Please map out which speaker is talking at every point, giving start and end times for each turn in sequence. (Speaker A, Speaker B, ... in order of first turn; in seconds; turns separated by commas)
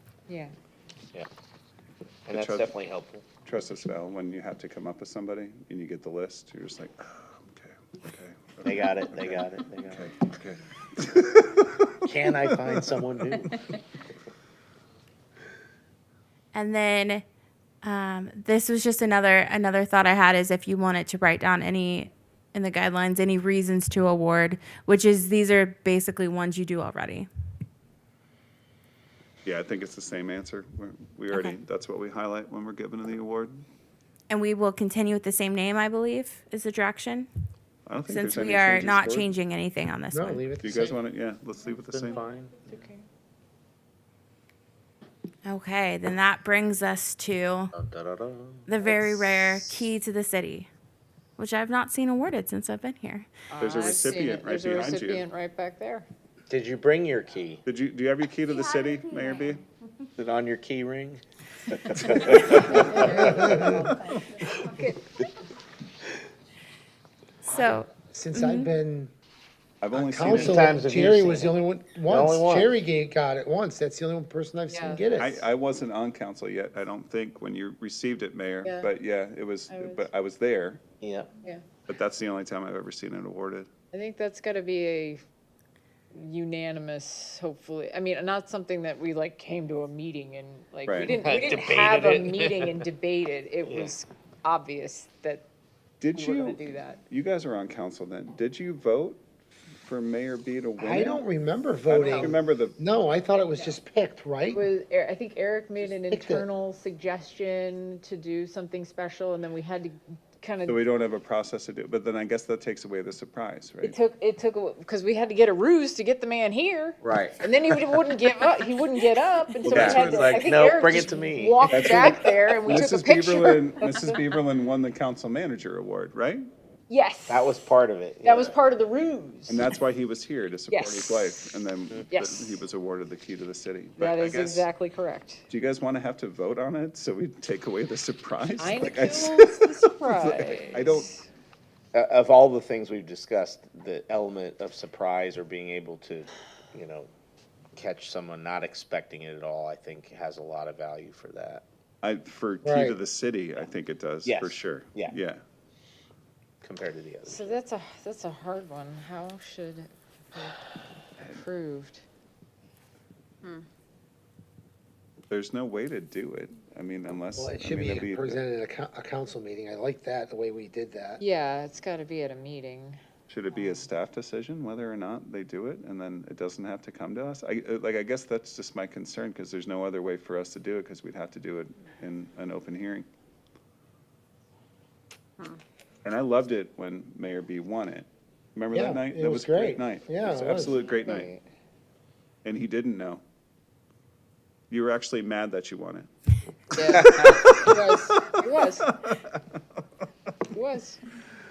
Speaker A: 2.3-3.2, Speaker B: 2.3-2.7, Speaker B: 3.3-12.1, Speaker A: 8.6-10.0, Speaker A: 12.1-13.6, Speaker C: 16.5-17.2, Speaker C: 17.8-27.3, Speaker B: 29.4-33.6, Speaker C: 31.3-31.6, Speaker C: 34.3-37.3, Speaker B: 37.9-39.3, Speaker C: 38.1-40.4, Speaker D: 40.1-41.0, Speaker B: 40.6-42.2, Speaker A: 41.9-42.6, Speaker C: 45.4-47.7, Speaker A: 47.7-49.8, Speaker C: 48.7-50.7, Speaker C: 51.4-53.3, Speaker E: 53.5-56.0, Speaker B: 53.6-55.3, Speaker A: 56.5-57.6, Speaker B: 57.6-59.6, Speaker C: 58.7-59.4, Speaker A: 60.1-61.2, Speaker A: 61.9-63.6, Speaker B: 62.0-64.2, Speaker E: 62.5-63.3, Speaker D: 63.1-63.8, Speaker C: 67.5-68.7, Speaker D: 68.1-69.1, Speaker B: 69.8-70.7, Speaker D: 69.9-75.5, Speaker A: 70.2-71.5, Speaker A: 72.1-72.7, Speaker E: 74.7-75.0, Speaker B: 75.2-80.8, Speaker E: 78.6-78.9, Speaker E: 79.7-80.1, Speaker A: 81.0-81.4, Speaker B: 81.8-83.7, Speaker E: 83.9-85.2, Speaker E: 86.1-95.4, Speaker B: 90.8-91.2, Speaker A: 91.2-92.8, Speaker A: 93.6-93.9, Speaker B: 96.0-99.2, Speaker E: 96.1-97.0, Speaker B: 99.8-101.2, Speaker D: 100.8-104.7, Speaker B: 101.9-102.8, Speaker E: 104.5-110.8, Speaker D: 105.9-106.4, Speaker B: 110.7-114.0, Speaker E: 113.9-124.2, Speaker A: 117.0-118.0, Speaker B: 119.6-120.6, Speaker A: 119.7-121.9, Speaker B: 121.7-126.5, Speaker E: 126.9-127.5, Speaker A: 127.3-128.5, Speaker E: 128.2-129.6, Speaker B: 129.5-134.7, Speaker E: 130.7-131.5, Speaker E: 132.1-132.6, Speaker E: 134.0-135.4, Speaker B: 135.5-141.1, Speaker E: 138.6-141.0, Speaker A: 141.9-147.1, Speaker A: 147.7-151.6, Speaker B: 152.0-155.4, Speaker D: 152.6-153.0, Speaker A: 154.2-155.1, Speaker A: 156.6-157.6, Speaker E: 157.3-160.6, Speaker E: 161.2-162.0, Speaker B: 165.3-168.4, Speaker D: 167.3-171.2, Speaker E: 171.2-172.9, Speaker B: 173.3-183.1, Speaker B: 186.0-191.3, Speaker D: 188.7-190.9, Speaker E: 191.1-191.4, Speaker B: 192.4-193.2, Speaker B: 194.7-196.1, Speaker E: 196.8-198.8, Speaker B: 196.8-198.3, Speaker A: 196.9-197.6, Speaker B: 198.9-199.3, Speaker E: 200.5-200.9